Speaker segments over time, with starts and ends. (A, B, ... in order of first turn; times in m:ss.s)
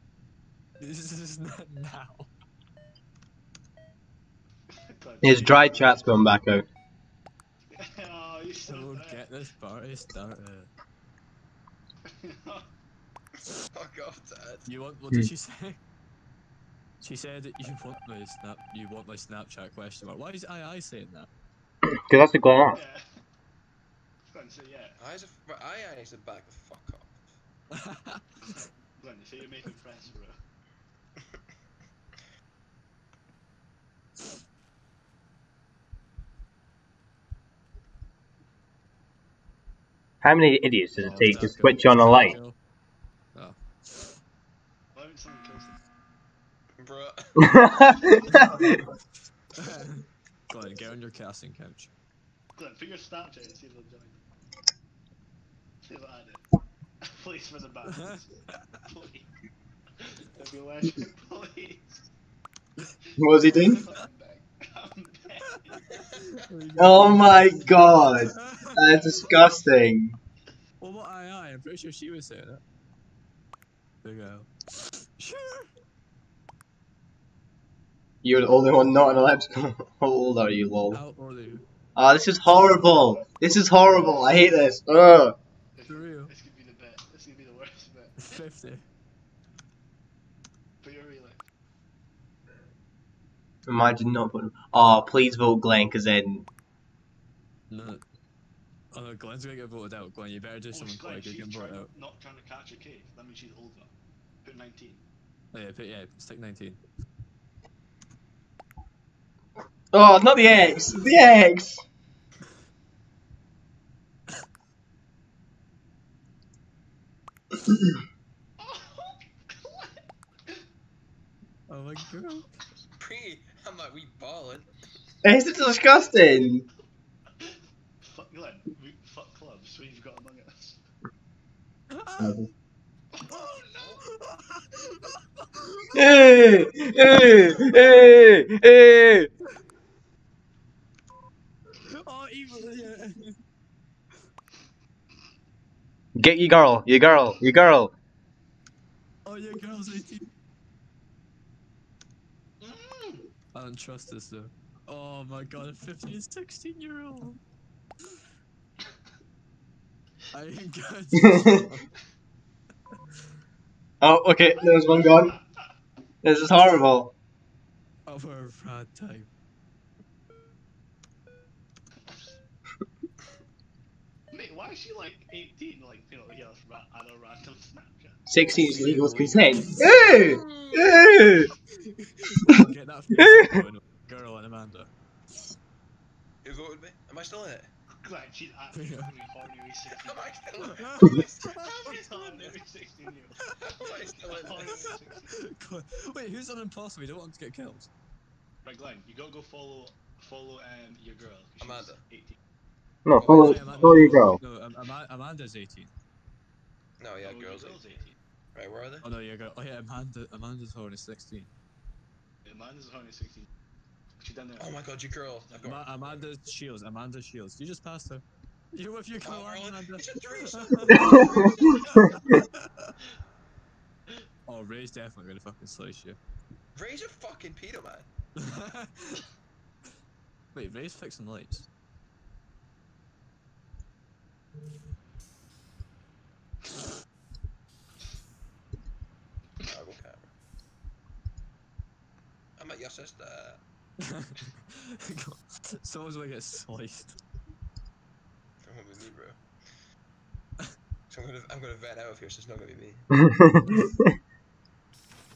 0:00.8-0:02.3 A
0:04.7-0:06.2 B
0:05.2-0:06.6 C
0:07.7-0:09.3 B
0:08.7-0:10.7 A
0:12.0-0:12.7 B
0:13.7-0:14.6 D
0:14.6-0:15.8 A
0:17.0-0:21.3 A
0:22.1-0:22.8 C
0:22.7-0:23.0 B
0:24.3-0:25.0 B
0:25.0-0:27.2 D
0:27.8-0:28.5 A
0:28.4-0:30.3 B
0:40.2-0:42.4 C
0:41.0-0:42.6 A
0:43.3-0:44.1 A
0:44.9-0:45.8 B
0:46.8-0:47.5 D
0:47.4-0:48.8 C
0:49.5-0:51.9 A
0:52.6-0:54.2 B
0:55.8-0:56.4 B
0:57.1-0:59.3 B
0:57.9-0:58.2 A
1:00.0-1:02.0 B
1:03.2-1:03.8 C
1:03.4-1:05.8 B
1:06.4-1:07.4 A
1:06.8-1:10.2 C
1:08.4-1:08.7 A
1:08.9-1:09.6 B
1:10.8-1:12.6 A
1:14.0-1:14.5 A
1:15.2-1:15.7 A
1:18.2-1:21.0 C
1:20.9-1:21.6 A
1:22.0-1:25.3 C
1:22.4-1:23.3 B
1:23.8-1:24.6 B
1:25.8-1:28.3 B
1:25.9-1:26.3 A
1:28.2-1:28.8 A
1:30.8-1:31.4 B
1:33.7-1:36.4 C
1:37.7-1:38.0 A
1:38.9-1:41.9 A
1:40.7-1:43.9 B
1:44.4-1:45.0 B
1:45.5-1:46.8 A
1:49.9-1:51.8 C
1:58.6-2:00.6 B
2:01.7-2:02.4 A
2:03.0-2:04.7 D
2:05.2-2:06.6 C
2:05.6-2:06.1 B
2:07.4-2:10.8 B
2:11.9-2:12.4 A
2:12.2-2:12.4 C
2:13.1-2:13.9 B
2:13.3-2:15.9 A
2:13.7-2:14.0 D
2:15.9-2:19.3 C
2:21.9-2:23.3 A
2:26.2-2:27.9 C
2:29.2-2:30.3 A
2:32.6-2:33.3 B
2:33.5-2:37.4 A
2:40.3-2:41.8 A
2:41.2-2:41.6 C
2:44.0-2:45.3 C
2:44.5-2:45.5 B
2:46.2-2:47.1 C
2:48.1-2:49.3 A
2:52.0-2:52.4 B
2:54.3-2:58.2 B
2:58.3-3:01.5 C
2:58.5-3:00.3 A
2:59.8-3:01.2 D
3:01.8-3:04.9 A
3:03.1-3:03.5 C
3:06.4-3:07.7 D
3:08.0-3:10.6 B
3:08.7-3:09.1 A
3:09.9-3:11.8 D
3:10.6-3:12.5 A
3:11.2-3:13.4 B
3:13.6-3:14.8 D
3:14.1-3:15.3 B
3:14.5-3:17.9 A
3:18.6-3:22.4 B
3:21.6-3:22.0 D
3:23.0-3:24.4 C
3:23.1-3:23.9 D
3:23.2-3:25.9 A
3:23.5-3:24.4 B
3:27.0-3:27.8 D
3:27.2-3:28.2 B
3:28.5-3:29.1 D
3:29.0-3:31.5 A
3:32.4-3:33.5 B
3:34.2-3:35.6 B
3:34.6-3:36.3 D
3:35.6-3:41.5 A
3:39.2-3:41.8 D
3:40.9-3:41.4 C
3:41.6-3:42.1 B
3:42.1-3:42.9 A
3:44.5-3:46.2 A
3:46.8-3:48.1 D
3:48.4-3:49.2 A
3:50.5-3:51.7 A
3:59.6-4:00.3 D
4:02.6-4:03.6 D
4:04.0-4:07.2 A
4:08.6-4:09.4 D
4:11.1-4:13.1 D
4:13.4-4:13.8 C